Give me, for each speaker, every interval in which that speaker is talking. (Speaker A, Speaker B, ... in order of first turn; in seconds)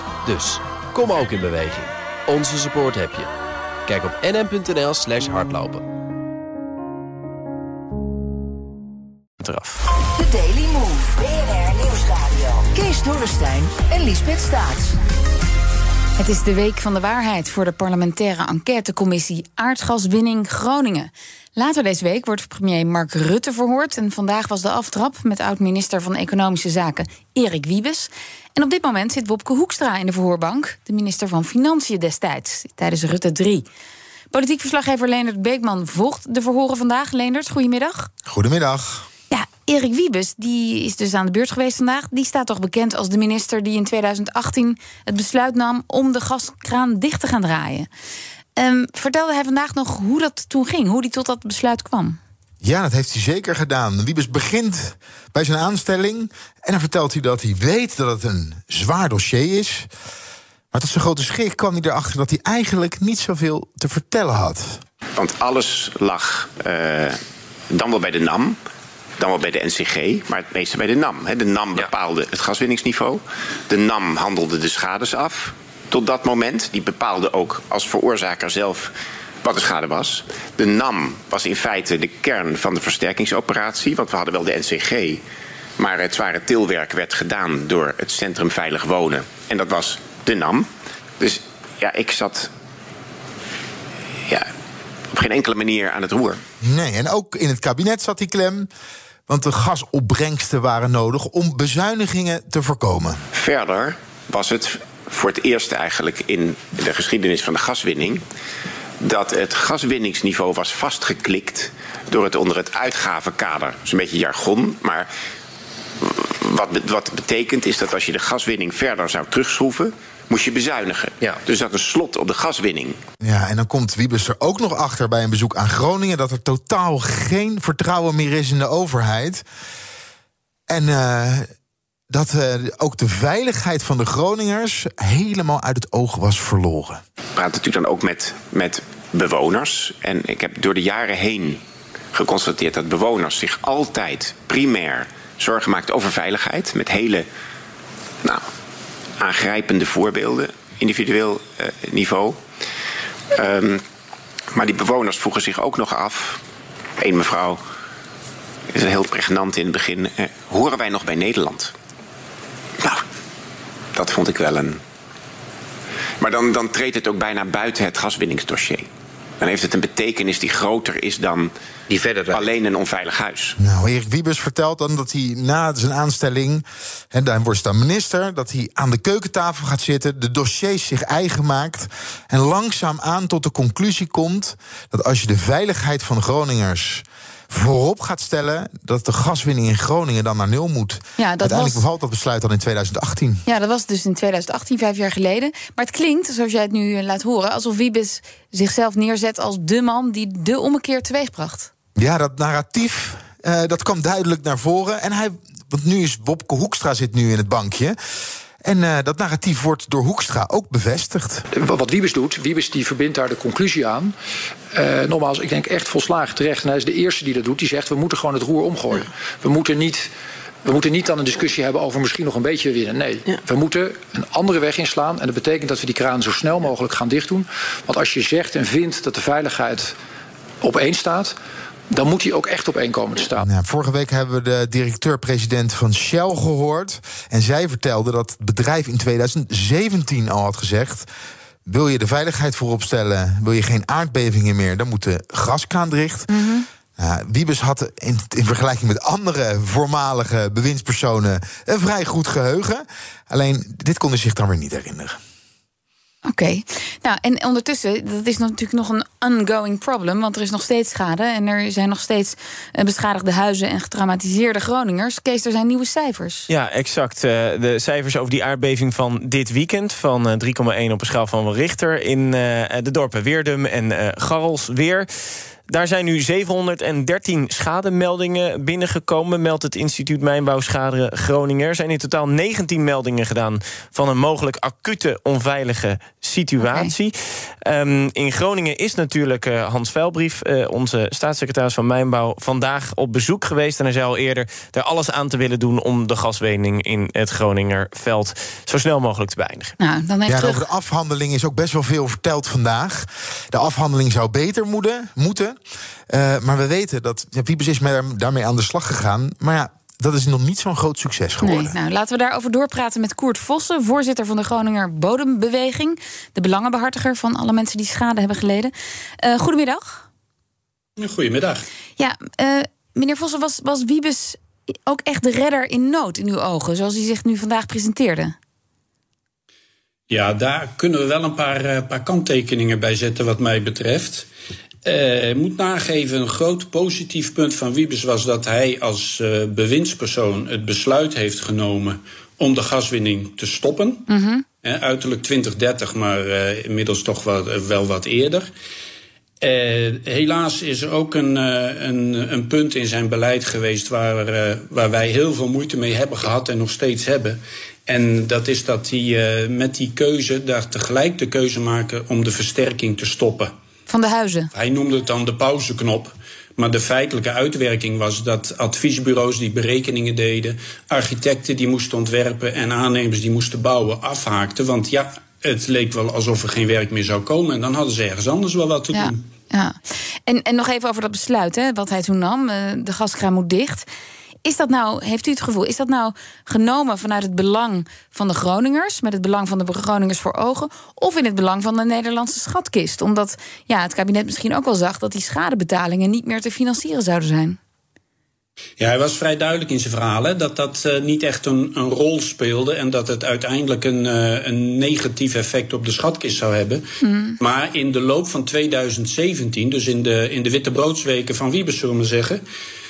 Speaker A: 0.2-3.3, 3.9-5.9
Speaker B: 9.4-9.8, 266.5-275.1, 275.7-299.7
Speaker C: 10.2-14.9
Speaker D: 16.2-33.7, 34.3-38.1, 39.3-47.9, 48.6-52.2, 191.2-191.8, 193.5-201.7, 246.3-246.7, 256.2-266.5, 286.6-286.9, 299.8-300.6, 311.4-320.0, 322.0-328.4, 344.1-344.4, 363.9-364.5, 378.9-383.9, 384.4-397.6, 407.0-407.4
Speaker E: 38.3-39.1, 52.6-59.9, 60.7-64.8, 96.6-98.7, 99.3-103.2, 123.2-129.4, 130.7-131.5, 132.1-137.0, 173.6-193.4, 202.0-208.0, 208.6-211.4, 233.4-241.1, 241.7-246.3, 247.0-255.2, 300.3-305.6, 306.1-311.8
Speaker F: 65.2-67.2, 67.7-68.6, 69.2-78.9, 79.4-85.2, 85.8-90.7, 91.2-92.5, 95.1-96.4, 103.3-108.2, 109.0-115.1, 116.0-123.0, 137.4-141.6, 142.1-147.2, 149.2-152.4, 153.3-153.8, 154.5-156.4, 157.0-157.6, 158.7-161.7, 163.9-164.8, 166.2-168.9, 169.4-171.5, 172.3-173.6
Speaker G: 211.5-214.1, 214.7-220.1, 220.7-229.9, 230.6-231.3, 231.9-233.4
Speaker H: 321.0-321.7, 330.1-334.3, 334.9-344.1, 344.6-348.5, 349.4-363.5, 364.5-379.2, 398.8-406.8, 407.4-412.4